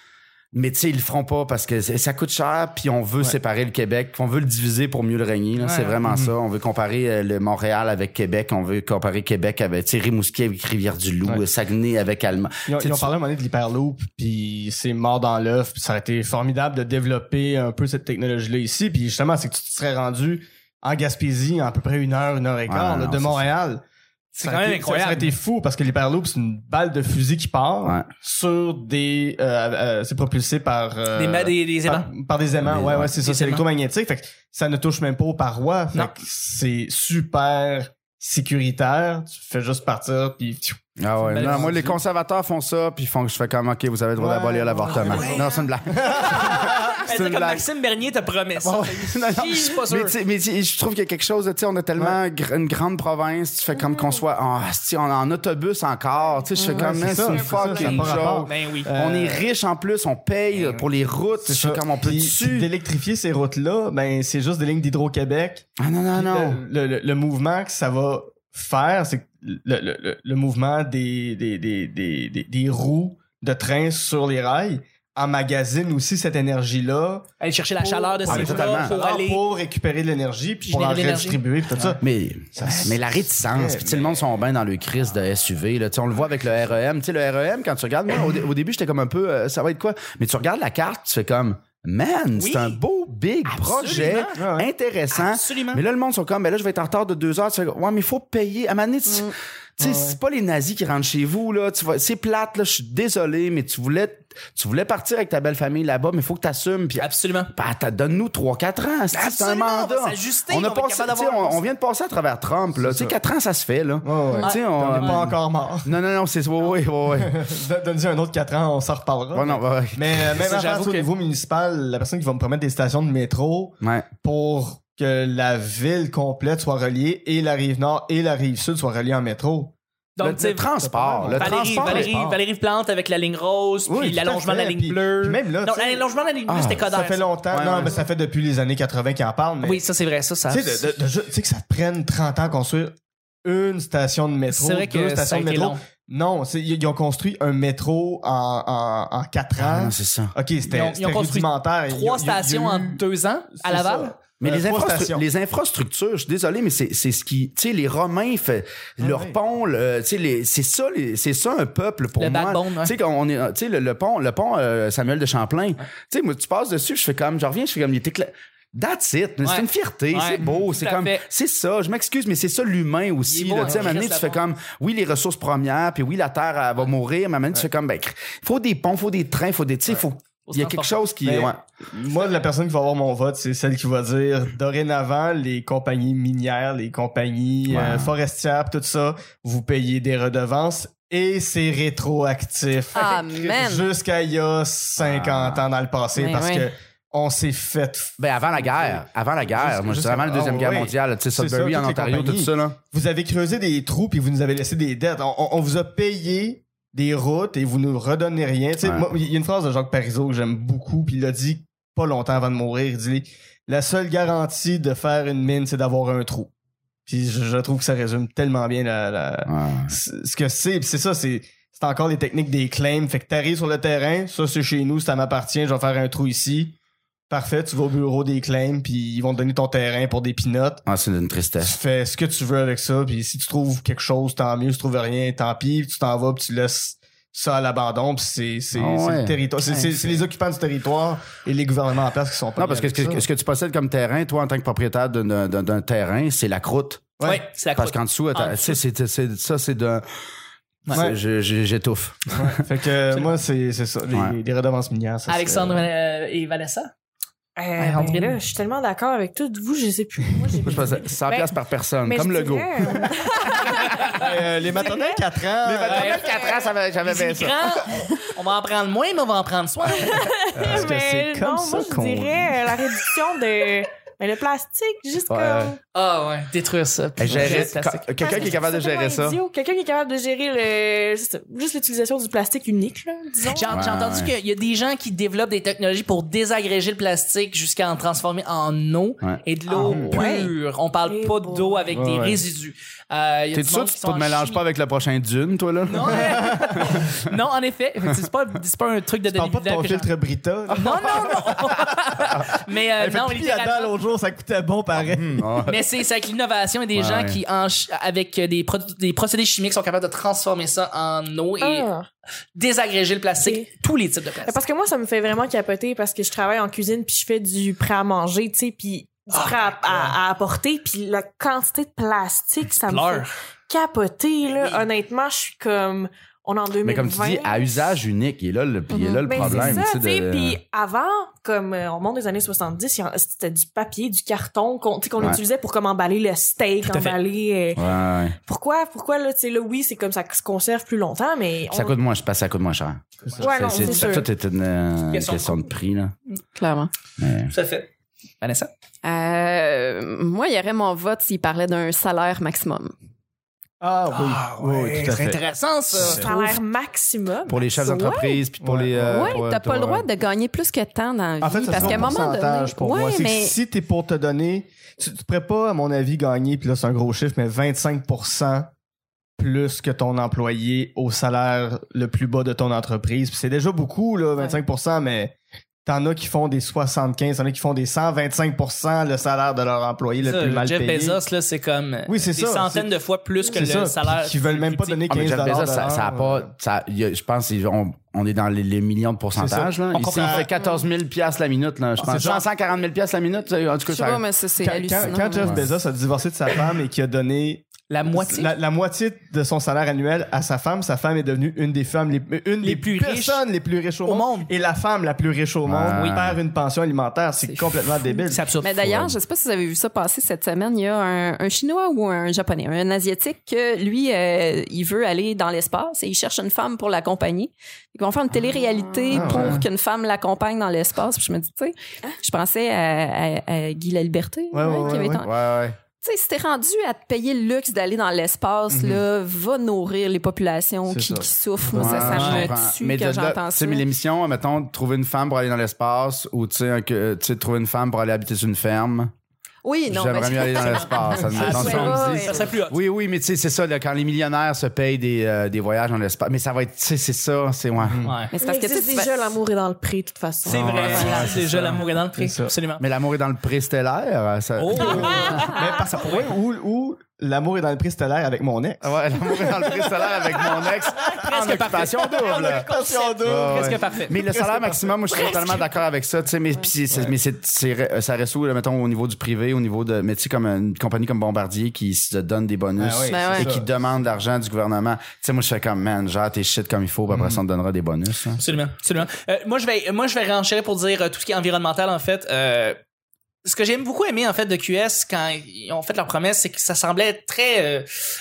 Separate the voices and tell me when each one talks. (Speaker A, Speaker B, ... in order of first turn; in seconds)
Speaker A: 0.5-13.1, 22.7-23.5, 32.6-33.1, 41.0-47.7, 49.0-62.7, 65.8-66.6, 78.3-78.9, 82.0-117.3, 119.3-120.5, 123.8-124.1, 130.2-132.1, 136.5-136.9, 137.5-137.9, 149.6-150.3, 154.4-181.6, 187.7-188.1, 195.0-195.6, 198.2-202.8, 219.4-219.9, 230.8-231.8, 238.7-239.4, 242.6-247.1, 247.7-250.1, 250.9-252.5, 254.1-254.4, 260.6-262.7, 265.6-267.6, 275.3-275.7, 277.2-279.4, 283.7-284.3, 289.2-290.2, 293.5-297.1, 300.9-301.6, 305.0-305.8, 306.9-307.4, 326.8-330.6, 337.8-338.4, 341.7-346.1, 347.2-347.5, 357.5-360.1, 361.8-362.2, 385.1-394.2, 395.0-395.6, 405.6-406.4, 408.7-409.1, 425.2-425.8, 431.7-439.1, 439.9-448.0, 450.4-451.5, 452.8-455.6, 458.8-462.6, 463.2-478.4
Speaker B: 5.6-6.0, 24.4-25.3, 31.1-32.1, 33.1-33.6, 41.3-42.0, 44.9-50.2, 57.1-58.9, 77.4-79.4, 80.6-81.9, 92.3-92.8, 93.4-94.4, 95.1-95.8, 107.0-107.5, 109.1-111.7, 114.4-115.3, 120.3-121.1, 130.2-137.9, 139.6-140.9, 144.5-145.8, 150.7-154.2, 162.2-162.9, 169.4-171.2, 173.2-174.4, 180.4-180.9, 239.7-240.2, 247.2-248.8, 253.1-253.4, 255.3-256.9, 257.8-258.4, 263.6-264.2, 265.8-270.3, 275.9-278.6, 283.5-294.6, 295.9-300.1, 300.7-304.0, 305.6-311.9, 312.5-314.6, 319.3-320.1, 322.7-323.3, 324.5-324.8, 329.4-329.8, 336.8-337.2, 343.2-344.2, 345.1-345.7, 347.5-347.9, 348.4-348.7, 354.1-356.6, 380.2-385.2, 389.9-390.5, 392.0-392.4, 397.9-398.5, 402.6-403.4, 404.0-404.5, 408.3-408.7, 432.0-432.5, 441.3-442.8, 448.0-448.3, 450.5-452.8, 454.6-456.3, 461.0-464.2, 465.1-465.7, 478.4-482.8, 483.4-487.9
Speaker C: 6.1-6.3, 12.7-23.8, 24.4-41.9, 44.2-47.0, 48.6-49.1, 56.7-59.5, 60.5-77.2, 77.8-82.0, 82.5-84.2, 94.4-94.7, 99.8-100.2, 112.7-113.2, 114.0-115.9, 117.1-129.7, 130.8-132.4, 133.8-136.1, 136.8-139.8, 140.5-153.0, 153.6-155.2, 159.0-159.4, 181.2-216.5, 217.1-226.7, 227.3-230.9, 231.6-243.2, 247.2-247.5, 250.9-251.2, 252.3-255.9, 264.2-266.2, 270.6-272.6, 277.3-277.6, 291.9-292.4, 296.1-296.9, 299.3-305.5, 353.8-356.3, 358.6-359.4, 361.4-368.7, 369.4-375.3, 375.8-381.2, 382.1-386.5, 389.3-390.5, 394.6-408.4, 419.1-419.6, 424.5-425.2, 428.7-429.0, 430.9-432.5, 447.8-448.2, 450.7-452.5, 454.7-460.2, 462.2-464.9, 466.9-467.1, 472.8-473.7, 477.1-477.4
Speaker D: 56.5-57.0, 99.0-99.3, 114.3-114.5, 192.9-193.9, 196.1-196.7, 328.9-329.3, 346.6-346.9, 349.0-352.9, 357.8-358.4, 359.1-363.6, 390.6-390.8, 393.9-395.7, 407.4-425.3, 426.0-433.9, 439.6-442.5, 448.4-449.3, 473.1-473.5
Speaker E: 257.6-264.2, 264.7-265.2, 270.0-275.8, 278.2-283.8, 289.7-290.4, 291.0-292.1, 311.6-312.1, 313.4-313.7, 314.4-327.9, 329.3-342.0, 343.4-344.3, 356.1-357.8, 448.4-451.4